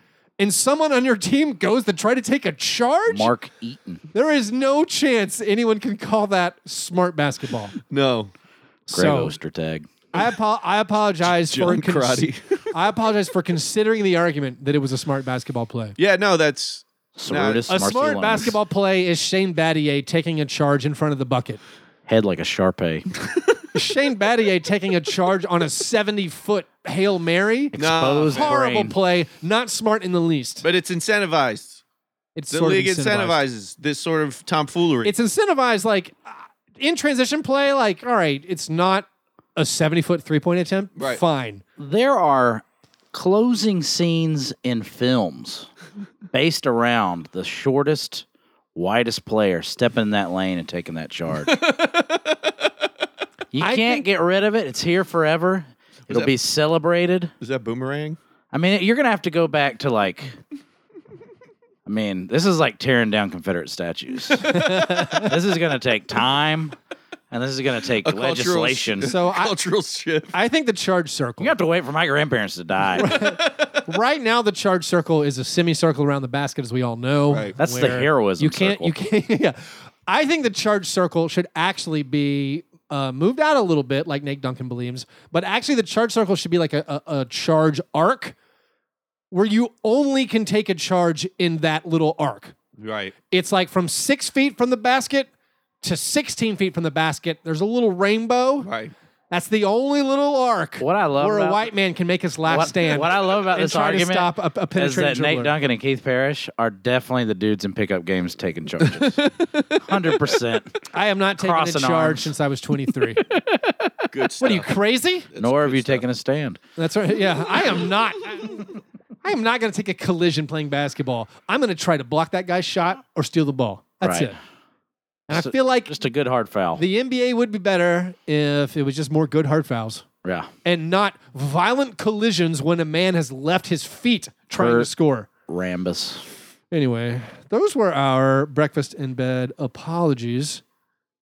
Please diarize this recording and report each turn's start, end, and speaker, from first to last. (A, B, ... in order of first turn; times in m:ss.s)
0:00.4-0:03.3 A
0:03.1-0:04.0 B
0:04.1-0:07.7 A
0:07.9-0:08.3 C
0:08.9-0:09.9 B
0:08.9-0:09.3 A
0:10.1-0:16.0 A
0:11.4-0:12.7 C
0:16.0-0:17.7 C
0:17.2-0:18.6 B
0:17.7-0:21.6 A
0:22.1-0:23.0 B
0:23.7-0:27.8 A
0:27.7-0:28.9 B
0:27.8-0:28.5 C
0:28.3-0:30.6 A
0:30.6-0:31.8 C
0:32.4-0:33.4 A
0:32.5-0:35.1 C
0:35.0-0:41.6 A
0:41.0-0:41.2 C
0:41.8-0:45.7 B
0:46.3-0:51.5 B
0:51.4-0:52.5 C
0:53.5-0:57.3 B
0:53.6-0:54.0 A
0:56.1-0:56.3 C
0:57.4-0:58.2 C
0:58.5-1:00.4 B
1:01.8-1:04.6 B
1:04.5-1:05.3 A
1:05.1-1:06.7 B
1:07.3-1:09.1 B
1:08.0-1:10.3 C
1:09.0-1:09.5 A
1:10.3-1:11.6 A
1:11.4-1:13.1 B
1:13.0-1:28.3 A
1:13.0-1:13.8 C
1:17.3-1:17.5 C
1:17.6-1:18.9 B
1:29.3-1:32.5 A
1:32.8-1:33.1 C
1:33.3-1:35.3 A
1:35.8-1:38.7 A
1:38.6-1:38.9 C
1:39.3-1:45.5 A
1:40.8-1:41.7 B
1:42.5-1:49.2 B
1:48.8-1:49.8 C
1:49.8-1:50.8 B
1:50.9-1:53.2 A
1:51.4-1:52.3 B
1:53.4-1:53.7 B
1:54.1-1:54.7 C
1:54.4-1:55.3 A
1:55.3-1:56.0 C
1:55.4-1:56.6 B
1:56.8-1:58.7 A
1:59.2-2:04.4 A
2:04.0-2:04.3 B
2:05.3-2:05.9 A
2:05.3-2:06.8 B
2:06.8-2:10.0 A
2:10.2-2:10.5 B
2:10.6-2:15.3 A
2:14.5-2:14.9 B
2:15.5-2:16.2 B
2:16.7-2:20.6 A